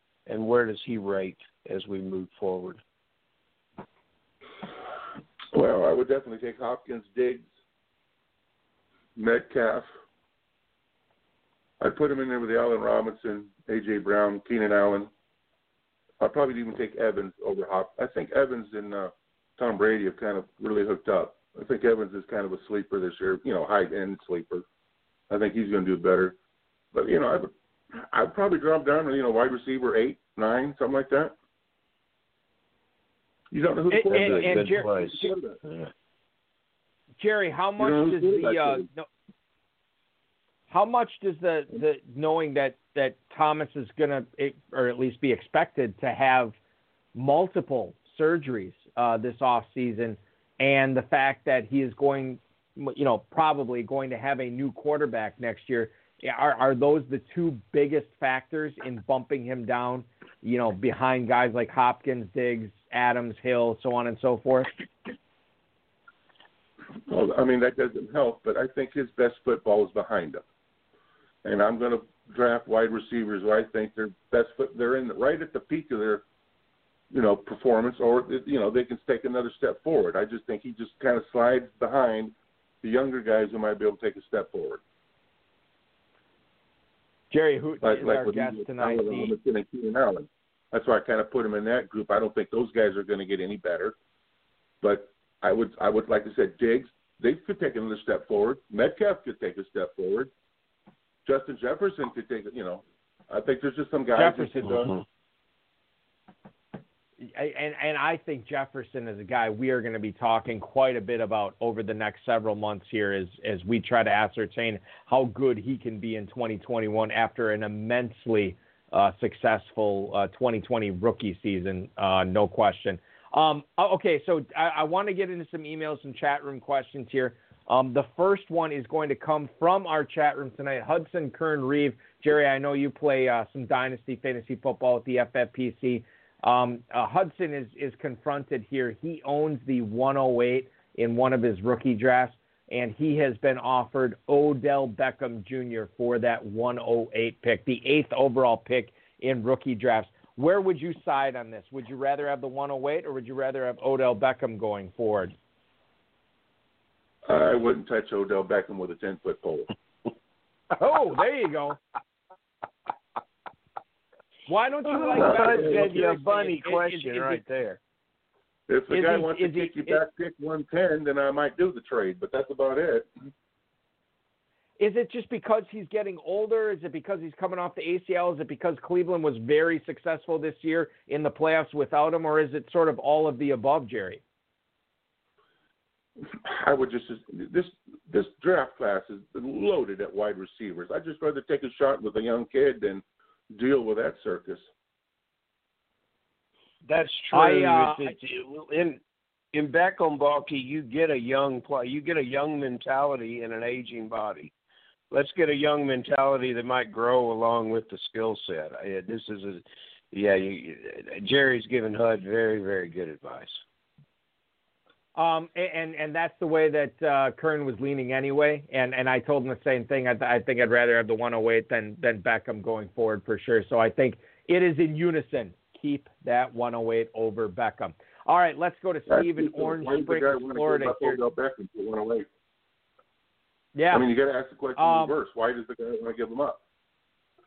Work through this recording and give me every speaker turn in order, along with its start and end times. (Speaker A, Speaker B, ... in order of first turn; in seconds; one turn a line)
Speaker A: 0.2-2.8
Speaker B: 5.5-7.5
Speaker B: 9.2-9.9
Speaker B: 11.8-15.1
Speaker B: 16.2-24.6
Speaker B: 25.3-26.4
Speaker B: 26.9-31.3
Speaker B: 33.5-35.6
Speaker C: 33.9-35.3
Speaker A: 34.1-35.9
Speaker C: 37.2-39.1
Speaker B: 37.8-38.9
Speaker C: 40.7-46.5
Speaker C: 47.1-64.7
Speaker B: 67.1-70.4
Speaker B: 71.4-76.2
Speaker B: 77.1-84.8
Speaker C: 87.3-89.3
Speaker B: 87.8-93.9
Speaker B: 94.8-100.3
Speaker B: 101.2-104.9
Speaker C: 104.1-104.9
Speaker C: 107.3-155.3
Speaker B: 157.2-159.7
Speaker C: 160.7-161.8
Speaker C: 164.5-167.4
Speaker A: 165.1-167.8
Speaker B: 165.2-165.9
Speaker B: 168.7-173.1
Speaker C: 168.9-170.0
Speaker C: 174.8-184.2
Speaker B: 186.2-194.7
Speaker A: 196.8-199.0
Speaker C: 197.3-198.1
Speaker A: 199.5-204.5
Speaker A: 205.1-213.6
Speaker C: 215.2-231.2
Speaker B: 229.1-232.3
Speaker C: 233.8-234.1
Speaker B: 233.9-236.6
Speaker C: 234.8-235.1